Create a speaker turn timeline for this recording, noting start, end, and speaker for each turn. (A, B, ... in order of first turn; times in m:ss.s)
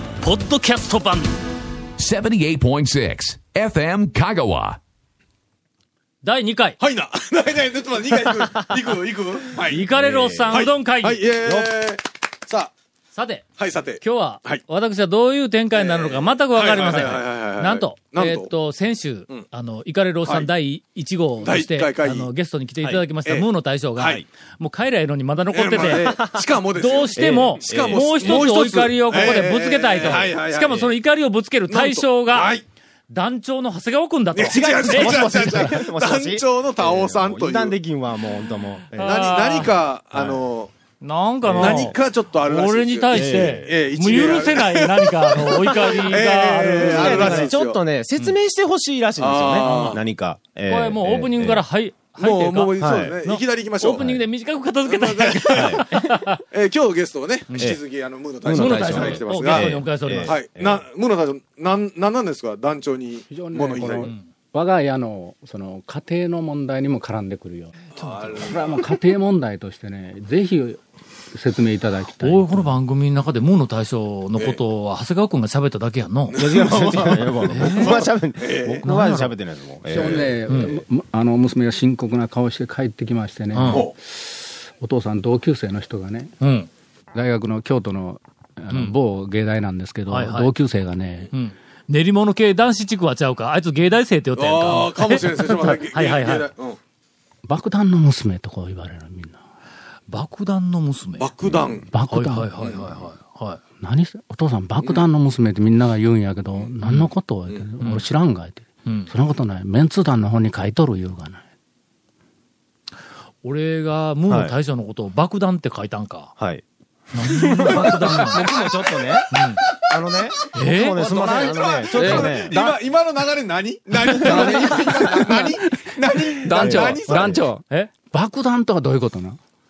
0:00.2-0:01.4 A
0:02.0-0:04.8 B
0:06.2-0:06.8 A
0:06.8-0:09.8 C
0:09.6-0:10.6 D
0:09.7-0:11.2 A
0:10.5-0:12.7 C
0:11.4-0:11.7 D
0:13.1-0:13.4 A
0:13.6-0:14.6 C
0:14.0-0:26.2 A
0:15.7-0:18.5 C
0:20.2-0:20.5 C
0:21.4-0:22.3 C
0:23.2-0:24.2 C
0:25.5-0:30.9 C
0:25.8-0:26.4 D
0:26.7-0:32.6 A
0:27.2-0:28.6 D
0:31.7-0:32.6 C
0:33.1-0:35.7 A
0:34.3-0:37.8 C
0:34.5-0:39.3 D
0:38.9-0:39.7 A
0:39.0-0:40.7 C
0:41.0-0:47.5 A
0:41.4-0:41.9 D
0:41.5-0:47.8 C
0:43.1-0:44.5 D
0:46.8-0:51.6 D
0:49.2-0:50.0 C
0:49.6-0:50.0 A
0:50.7-0:56.4 A
0:52.2-0:54.1 C
0:52.8-0:53.2 D
0:53.9-0:54.2 D
0:54.8-0:56.0 C
0:55.5-0:55.9 D
0:56.5-1:04.1 C
0:57.5-0:57.8 A
0:58.4-1:00.8 D
0:58.5-1:00.4 A
1:03.3-1:07.7 E
1:04.0-1:04.3 A
1:07.9-1:08.7 A
1:08.0-1:08.8 C
1:08.4-1:10.8 E
1:11.3-1:12.7 E
1:12.2-1:16.4 A
1:14.4-1:14.6 C
1:16.3-1:18.9 C
1:16.4-1:20.4 D
1:17.5-1:18.0 A
1:18.8-1:19.3 A
1:19.9-1:26.3 E
1:19.9-1:20.3 C
1:20.5-1:20.7 A
1:23.5-1:23.9 A
1:26.4-1:26.7 A
1:27.1-1:31.3 E
1:30.1-1:30.5 A
1:31.3-1:36.5 A
1:34.4-1:36.8 C
1:37.4-1:39.4 E
1:40.1-1:41.3 A
1:41.2-1:41.9 C
1:41.9-1:42.6 E
1:42.1-1:43.6 A
1:42.6-1:42.9 C
1:43.8-1:51.4 E
1:44.8-1:45.1 C
1:47.8-1:48.0 A
1:48.8-1:49.1 A
1:53.4-1:56.3 A
1:54.3-1:54.5 D
1:56.4-2:02.6 D
1:57.1-1:58.5 A
1:59.3-1:59.6 A
2:00.5-2:01.6 A
2:00.9-2:07.5 C
2:01.9-2:02.8 E
2:04.1-2:09.4 E
2:06.5-2:07.4 D